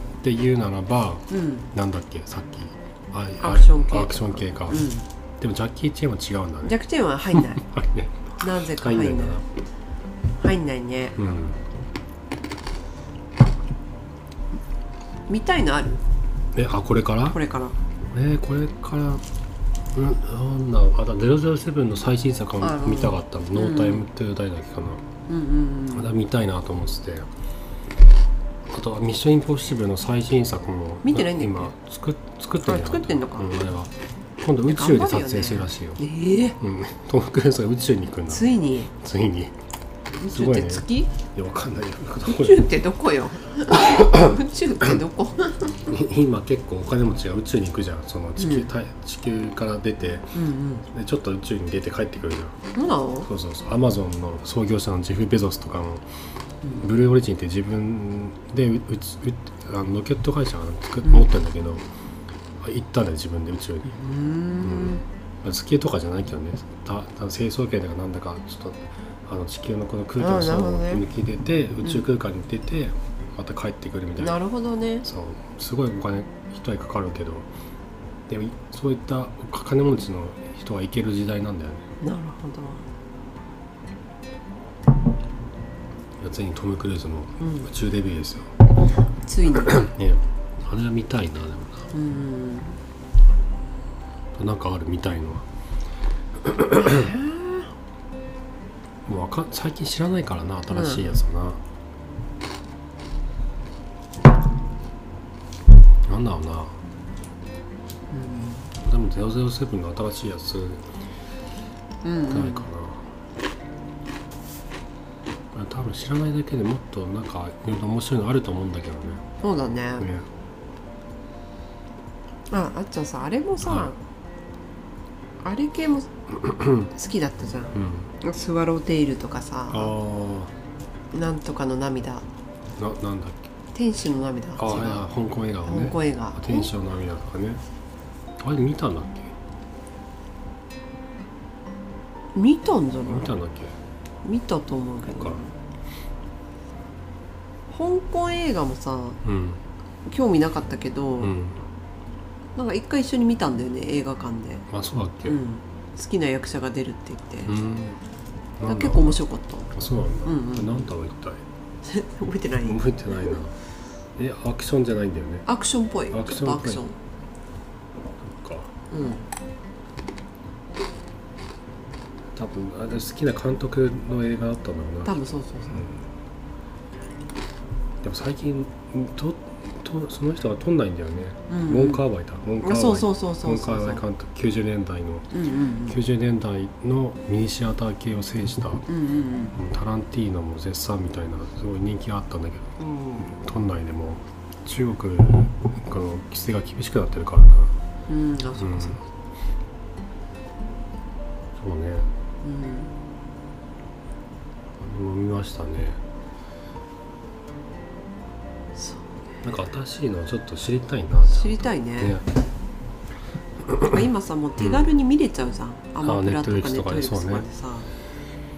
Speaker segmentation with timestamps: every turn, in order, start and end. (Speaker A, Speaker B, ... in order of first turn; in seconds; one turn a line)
Speaker A: 0.2-6.8
Speaker B: 1.3-1.7
Speaker B: 3.4-5.0
Speaker B: 6.6-7.6
Speaker A: 7.3-9.4
Speaker B: 8.4-9.4
Speaker B: 10.4-11.2
Speaker A: 11.2-11.6
Speaker B: 15.3-16.0
Speaker A: 16.5-17.4
Speaker B: 17.3-17.8
Speaker A: 18.1-19.2
Speaker A: 19.9-25.0
Speaker B: 22.6-24.1
Speaker B: 25.3-26.1
Speaker A: 25.9-27.3
Speaker A: 28.7-36.0
Speaker B: 31.0-31.7
Speaker B: 32.6-33.5
Speaker B: 34.7-36.6
Speaker A: 36.6-39.5
Speaker B: 38.3-38.9
Speaker B: 40.2-41.1
Speaker A: 40.3-42.6
Speaker B: 42.2-45.8
Speaker A: 43.7-44.4
Speaker A: 45.7-50.3
Speaker B: 48.4-48.7
Speaker B: 50.3-50.8
Speaker A: 50.9-52.5
Speaker B: 52.7-53.3
Speaker A: 53.2-56.0
Speaker A: 56.8-61.8
Speaker A: 62.6-64.1
Speaker B: 63.9-65.0
Speaker A: 64.6-74.4
Speaker B: 70.2-71.0
Speaker B: 74.2-75.0
Speaker A: 75.0-77.5
Speaker A: 78.3-81.8
Speaker B: 82.0-82.8
Speaker A: 86.2-88.5
Speaker B: 87.4-87.7
Speaker B: 89.0-89.7
Speaker A: 89.5-91.9
Speaker B: 91.9-92.8
Speaker A: 94.3-95.4
Speaker A: 96.4-97.1
Speaker B: 96.8-97.7
Speaker A: 99.0-101.6
Speaker B: 100.7-101.2
Speaker A: 106.0-106.8
Speaker B: 108.1-108.7
Speaker A: 108.8-110.8
Speaker B: 112.0-112.7
Speaker A: 112.3-113.1
Speaker A: 115.5-119.2
Speaker B: 119.4-120.1
Speaker A: 120.0-120.3
Speaker B: 122.5-124.0
Speaker A: 123.6-123.9
Speaker B: 125.4-126.1
Speaker A: 126.3-126.9
Speaker B: 126.9-129.9
Speaker A: 127.7-128.1
Speaker A: 129.7-130.5
Speaker B: 131.1-132.2
Speaker A: 132.8-133.5
Speaker B: 133.7-135.1
Speaker A: 134.6-137.6
Speaker B: 135.6-136.7
Speaker A: 138.4-139.3
Speaker B: 142.3-143.3
Speaker A: 143.1-143.7
Speaker B: 144.2-145.5
Speaker A: 145.1-145.4
Speaker B: 147.7-149.2
Speaker A: 149.2-149.6
Speaker B: 150.1-151.3
Speaker A: 151.2-151.6
Speaker B: 152.6-154.7
Speaker A: 154.7-155.4
Speaker B: 155.2-157.5
Speaker A: 157.4-158.0
Speaker A: 158.6-159.2
Speaker B: 158.6-159.7
Speaker A: 159.7-161.4
Speaker B: 160.2-160.8
Speaker B: 161.8-163.4
Speaker A: 162.6-163.6
Speaker A: 164.2-165.4
Speaker B: 165.4-166.9
Speaker A: 166.1-166.8
Speaker A: 168.2-168.7
Speaker B: 168.9-169.2
Speaker A: 172.3-176.0
Speaker B: 175.0-175.9
Speaker A: 178.0-185.3
Speaker B: 181.5-182.0
Speaker B: 182.6-184.0
Speaker B: 185.3-186.0
Speaker A: 185.9-188.8
Speaker B: 188.9-189.6
Speaker A: 189.5-197.7
Speaker B: 192.8-193.3
Speaker B: 198.1-199.0
Speaker A: 198.6-199.0
Speaker A: 201.6-202.1
Speaker B: 202.4-202.9
Speaker A: 204.8-206.0
Speaker B: 208.8-209.5
Speaker A: 209.4-212.2
Speaker B: 211.2-212.2
Speaker A: 213.6-214.1
Speaker B: 213.9-217.9
Speaker A: 214.6-214.9
Speaker A: 216.0-217.4